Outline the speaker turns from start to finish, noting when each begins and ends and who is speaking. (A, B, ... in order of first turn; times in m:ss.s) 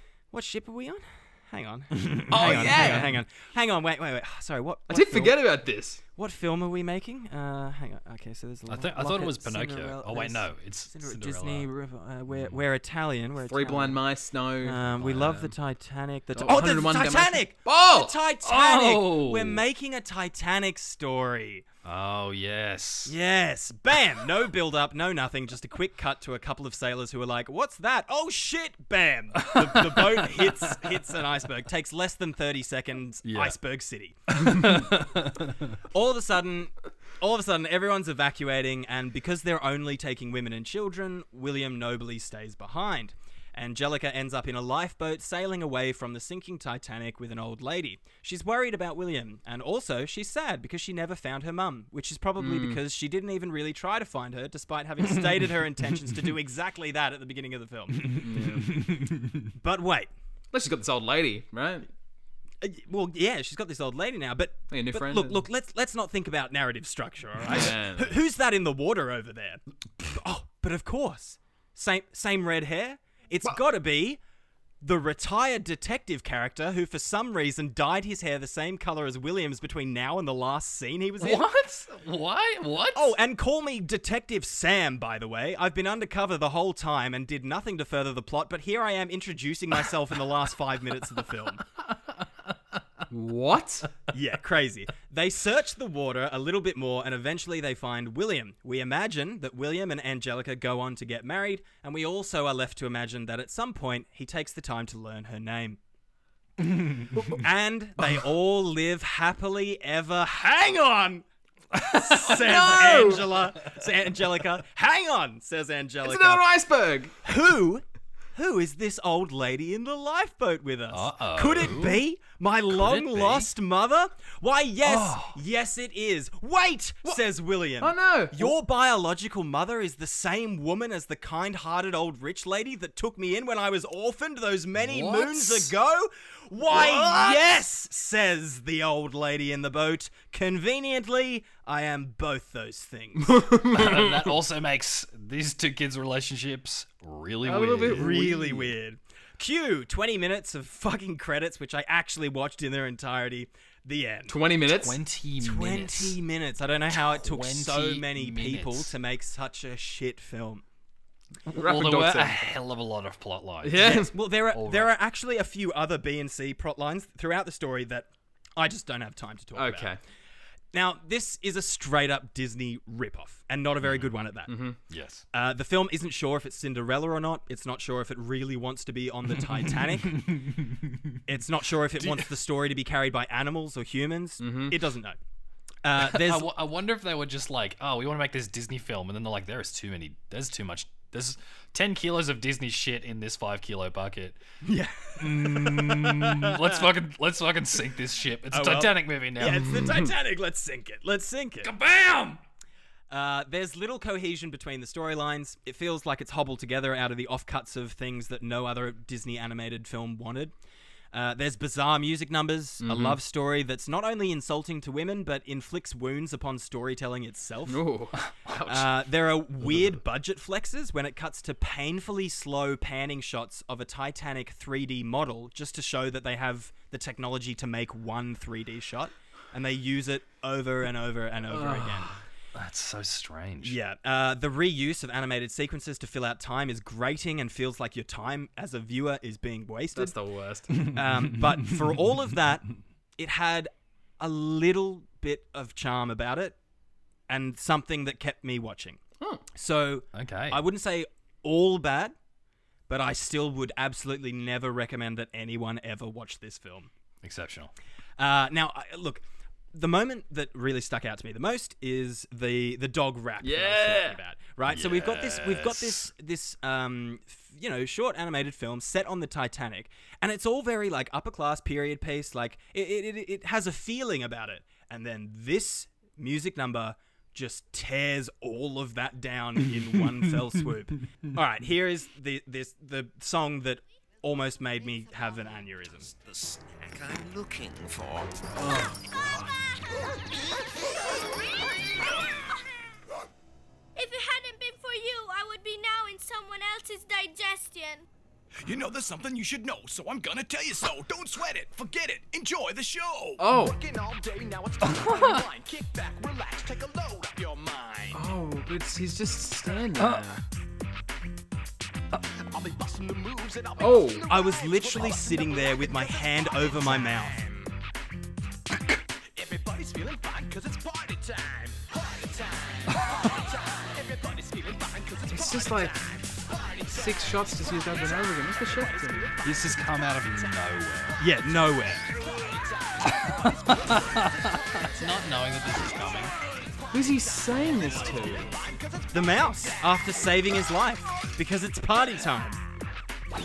0:00.3-0:05.4 A
0:02.0-0:03.1 B
0:02.3-0:03.2 C
0:04.9-0:06.0 C
0:06.1-0:14.0 A
0:08.7-0:11.7 B
0:12.3-0:12.6 B
0:13.5-0:14.8 C
0:14.6-0:21.6 A
0:14.9-0:15.5 B
0:16.4-0:18.1 C
0:18.4-0:19.6 B
0:21.8-0:23.1 B
0:23.0-0:34.8 A
0:29.5-0:30.7 B
0:33.2-0:33.5 B
0:34.4-0:35.7 B
0:35.9-0:58.2 A
0:52.4-0:52.8 C
0:58.1-0:58.8 C
0:58.1-0:59.4 B
0:59.5-1:00.1 A
1:00.5-1:01.9 C
1:02.6-1:14.2 A
1:04.7-1:05.4 C
1:07.5-1:08.2 C
1:14.8-1:21.4 A
1:21.2-1:23.2 B
1:22.9-1:31.6 A
1:33.1-1:33.9 C
1:34.1-1:45.8 A
1:47.1-1:51.2 A
1:51.8-1:53.0 B
1:51.8-1:56.4 A
1:52.2-1:53.3 C
1:56.0-1:57.1 C
1:57.2-2:23.4 A
2:00.9-2:02.0 B
2:02.7-2:03.5 B
2:04.8-2:05.4 B
2:07.8-2:08.5 C
2:14.8-2:15.7 B
2:16.7-2:17.5 B
2:23.2-2:24.4 C
2:23.7-2:28.6 B
2:27.4-2:28.4 C
2:27.9-2:34.4 A
2:34.3-2:35.0 C
2:34.7-2:36.2 B
2:35.4-2:40.6 A
2:36.9-2:38.9 B
2:41.5-2:45.0 B
2:41.5-2:42.5 C
2:43.6-2:44.1 C
2:43.8-2:49.9 A
2:49.6-2:50.0 C
2:50.7-2:54.5 A
2:53.8-2:54.1 B
2:54.5-2:54.8 C
2:54.9-2:55.2 B
2:55.3-3:00.3 A
2:59.6-3:01.2 B
3:01.3-3:05.2 A
3:02.0-3:02.2 B
3:04.4-3:04.8 C
3:05.8-3:06.5 A
3:06.0-3:14.4 B
3:14.6-3:16.8 A
3:15.2-3:19.8 B
3:18.5-3:21.7 A
3:21.6-3:22.4 B
3:23.1-3:30.5 A
3:31.1-3:37.8 A
3:32.8-3:33.2 C
3:37.7-3:38.2 C
3:38.4-3:38.8 B
3:38.7-3:52.1 A
3:51.5-3:52.2 C
3:52.5-3:53.8 B
3:53.6-4:00.1 A
3:59.9-4:00.9 C
4:00.8-4:06.6 A
4:01.2-4:01.9 B
4:07.3-4:09.0 A
4:09.5-4:12.1 A
4:10.1-4:10.6 B
4:12.9-4:16.9 A
4:17.2-4:17.7 B
4:18.2-4:46.1 A
4:23.4-4:24.2 C
4:24.7-4:26.1 B
4:46.3-4:48.4 D
4:48.6-4:49.5 C
4:54.0-4:58.0 E
4:58.6-5:08.3 F
5:03.4-5:03.8 C
5:05.0-5:05.3 B
5:08.1-5:10.4 C
5:10.0-5:10.4 B
5:12.5-5:17.7 F
5:13.8-5:14.2 C
5:14.3-5:17.3 A
5:19.3-5:30.7 F
5:25.3-5:25.9 C
5:26.9-5:29.3 C
5:29.4-5:31.2 B
5:31.2-5:32.0 A
5:31.2-5:40.7 F
5:33.1-5:36.3 B
5:36.9-5:38.5 C
5:39.1-5:42.6 A